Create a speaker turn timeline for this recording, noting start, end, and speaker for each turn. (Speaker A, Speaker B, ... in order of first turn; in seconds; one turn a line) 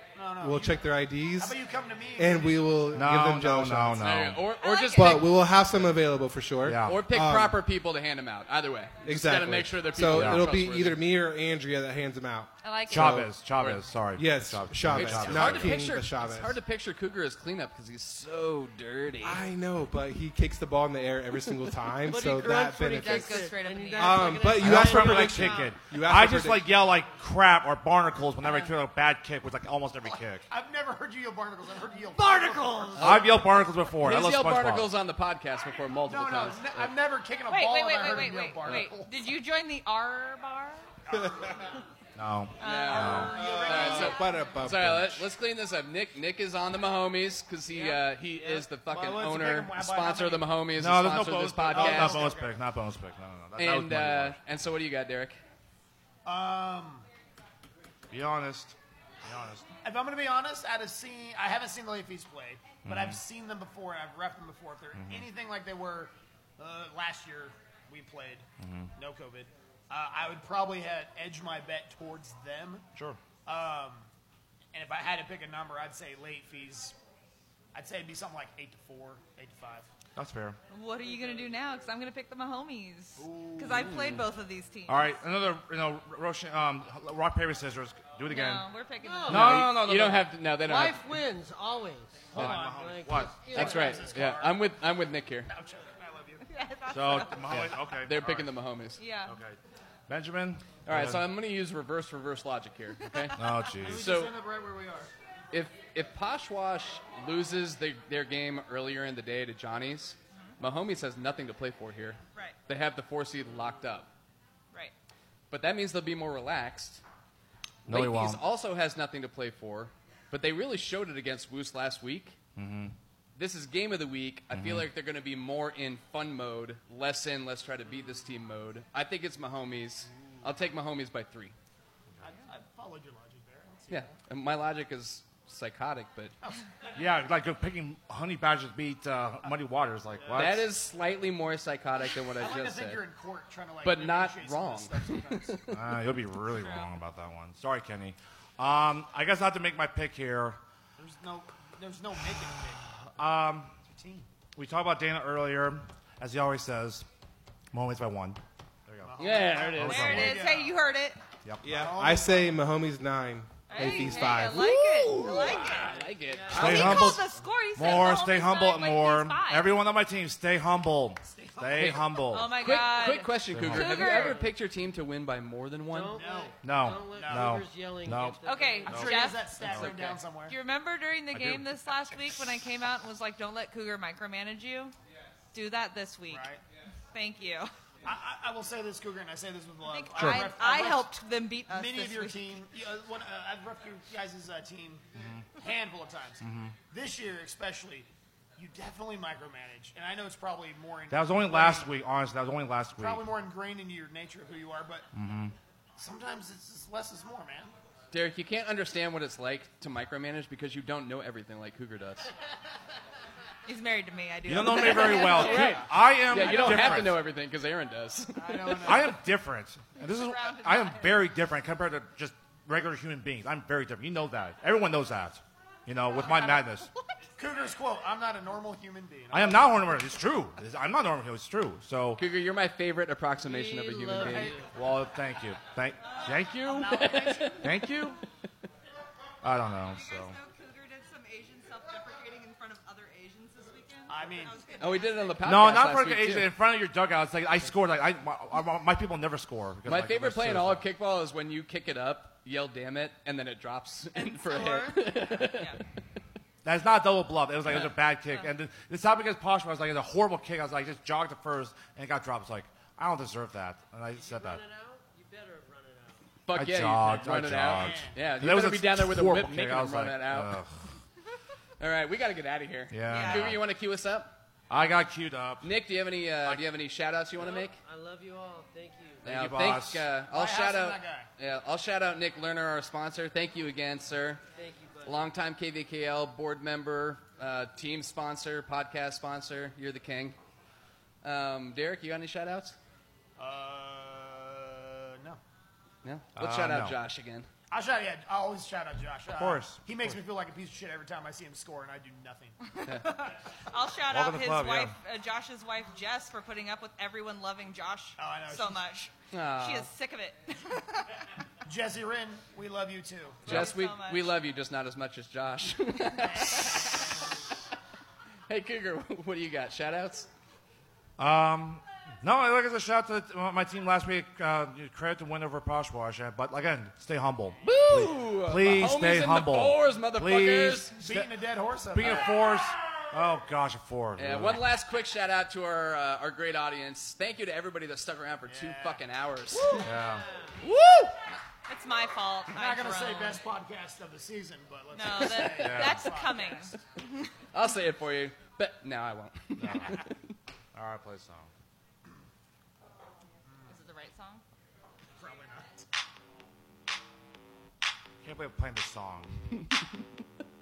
Speaker A: 0.1-0.8
Speaker B: 0.4-1.6
Speaker A: 1.4-2.9
Speaker B: 2.2-4.3
Speaker C: 2.9-4.4
Speaker D: 4.0-5.3
Speaker E: 4.6-5.2
Speaker B: 4.9-7.6
Speaker C: 6.6-7.0
Speaker D: 6.8-11.0
Speaker B: 9.0-13.3
Speaker C: 10.0-10.5
Speaker E: 12.6-13.2
Speaker C: 12.9-15.8
Speaker D: 13.6-13.9
Speaker B: 14.1-16.6
Speaker D: 14.9-19.4
Speaker B: 19.2-26.7
Speaker F: 22.0-25.7
Speaker E: 22.9-24.5
Speaker C: 24.5-30.4
Speaker A: 30.5-33.2
Speaker F: 32.1-33.0
Speaker D: 33.0-33.4
Speaker C: 33.0-34.9
Speaker D: 33.9-36.9
Speaker A: 36.1-39.2
Speaker E: 37.5-40.9
Speaker A: 41.2-41.5
Speaker C: 42.1-43.4
Speaker E: 42.6-43.3
Speaker D: 42.6-52.3
Speaker B: 43.0-45.3
Speaker A: 43.0-44.3
Speaker E: 47.7-48.0
Speaker A: 48.4-50.6
Speaker C: 50.8-54.4
Speaker A: 51.7-52.5
Speaker D: 53.6-55.4
Speaker A: 56.2-57.0
Speaker C: 58.1-59.6
Speaker A: 59.8-68.4
Speaker C: 62.8-63.2
Speaker C: 64.9-65.3
Speaker C: 68.6-68.9
Speaker A: 69.0-72.8
Speaker C: 72.9-73.2
Speaker A: 73.4-74.1
Speaker A: 74.7-77.0
Speaker A: 77.7-79.9
Speaker C: 80.2-80.6
Speaker E: 80.7-85.2
Speaker A: 83.2-84.1
Speaker D: 83.7-84.3
Speaker C: 84.9-88.7
Speaker E: 88.3-89.6
Speaker F: 89.0-89.8
Speaker C: 89.3-90.3
Speaker D: 89.3-91.0
Speaker F: 90.5-94.2
Speaker A: 92.3-94.7
Speaker C: 92.3-93.5
Speaker D: 93.5-95.5
Speaker A: 95.4-96.5
Speaker E: 96.5-97.6
Speaker C: 96.9-98.5
Speaker D: 97.5-99.0
Speaker E: 99.0-99.3
Speaker C: 99.3-99.6
Speaker C: 100.1-101.2
Speaker D: 100.8-104.3
Speaker E: 103.2-103.7
Speaker C: 103.3-104.1
Speaker A: 103.8-105.1
Speaker D: 105.5-114.1
Speaker D: 115.5-117.0
Speaker C: 117.8-118.4
Speaker D: 117.9-122.4
Speaker C: 122.5-122.9
Speaker D: 123.3-131.5
Speaker C: 124.5-124.9
Speaker A: 132.2-134.2
Speaker D: 133.9-136.3
Speaker C: 136.9-140.7
Speaker A: 140.1-140.6
Speaker D: 140.3-143.0
Speaker A: 142.4-145.7
Speaker D: 143.8-145.9
Speaker C: 145.7-150.6
Speaker E: 146.5-146.9
Speaker A: 151.0-152.9
Speaker C: 153.0-153.7
Speaker A: 153.9-154.3
Speaker C: 154.6-157.1
Speaker C: 157.7-160.4
Speaker A: 159.0-160.8
Speaker D: 159.2-160.1
Speaker E: 159.8-161.2
Speaker C: 161.4-161.8
Speaker B: 161.6-164.7
Speaker A: 161.7-162.6
Speaker E: 163.7-165.9
Speaker D: 163.8-167.2
Speaker A: 165.2-166.6
Speaker F: 166.3-167.1
Speaker C: 166.5-172.6
Speaker E: 166.5-169.7
Speaker A: 167.1-168.1
Speaker A: 171.2-172.2
Speaker D: 171.8-176.2
Speaker E: 172.3-174.4
Speaker C: 173.5-173.9
Speaker F: 173.9-174.5
Speaker F: 175.9-179.1
Speaker A: 176.1-176.6
Speaker C: 176.6-179.9
Speaker A: 177.1-177.7
Speaker E: 178.4-179.5
Speaker A: 178.8-180.6
Speaker D: 179.7-180.2
Speaker E: 180.5-184.9
Speaker C: 181.3-181.7
Speaker E: 185.5-186.5
Speaker A: 186.3-186.6
Speaker E: 187.1-187.7
Speaker A: 188.0-191.1
Speaker E: 189.9-192.6
Speaker C: 190.2-190.5
Speaker A: 191.7-201.9
Speaker C: 195.1-195.5
Speaker C: 196.4-196.8
Speaker C: 201.1-203.3
Speaker A: 203.0-205.1
Speaker C: 205.1-205.5
Speaker A: 206.0-207.7
Speaker D: 208.1-212.3
Speaker E: 213.7-215.7
Speaker C: 214.4-217.2
Speaker D: 214.8-219.1
Speaker A: 215.3-215.8
Speaker A: 216.3-217.1
Speaker A: 218.3-219.2
Speaker C: 218.8-226.9
Speaker E: 220.0-221.3
Speaker E: 226.2-227.2
Speaker A: 227.4-230.0
Speaker C: 229.3-232.2
Speaker D: 232.2-234.6
Speaker F: 233.4-234.7
Speaker C: 234.7-238.2
Speaker A: 236.6-237.7
Speaker D: 236.8-237.8
Speaker C: 239.4-240.3
Speaker E: 239.9-245.5
Speaker A: 244.1-244.7
Speaker D: 244.8-246.5
Speaker C: 245.4-250.8
Speaker D: 249.8-255.8
Speaker E: 254.1-255.8
Speaker C: 256.6-264.6
Speaker F: 264.1-266.2
Speaker D: 266.4-270.6
Speaker C: 266.5-270.9
Speaker A: 267.7-268.2
Speaker D: 271.8-274.3
Speaker C: 272.9-273.6
Speaker E: 273.1-273.6
Speaker C: 274.7-275.7
Speaker D: 275.6-277.8
Speaker F: 277.4-279.2
Speaker D: 279.2-284.4
Speaker C: 279.2-280.1
Speaker A: 280.2-281.3
Speaker F: 284.5-285.3
Speaker D: 285.0-290.4
Speaker D: 291.2-292.8
Speaker A: 293.4-295.4
Speaker D: 296.0-297.5
Speaker C: 296.4-297.0
Speaker A: 297.7-302.6
Speaker C: 299.3-300.2
Speaker E: 302.7-311.2
Speaker C: 304.1-304.9
Speaker A: 308.2-309.1
Speaker D: 309.3-309.9
Speaker A: 311.6-313.5
Speaker E: 313.4-314.3
Speaker D: 313.4-317.1
Speaker A: 316.2-317.0
Speaker D: 318.5-320.3
Speaker C: 321.2-331.3
Speaker D: 327.6-330.9
Speaker A: 330.9-332.3
Speaker C: 331.9-334.7
Speaker D: 334.2-339.9
Speaker A: 338.4-339.1
Speaker C: 339.8-340.2
Speaker D: 340.6-341.2
Speaker E: 341.7-343.4
Speaker A: 342.5-346.8
Speaker E: 344.9-346.7
Speaker C: 345.6-346.1
Speaker D: 347.5-350.1
Speaker C: 349.6-350.0
Speaker C: 350.7-351.5
Speaker A: 353.4-353.8
Speaker E: 353.7-354.4
Speaker A: 355.1-355.8
Speaker C: 358.2-359.4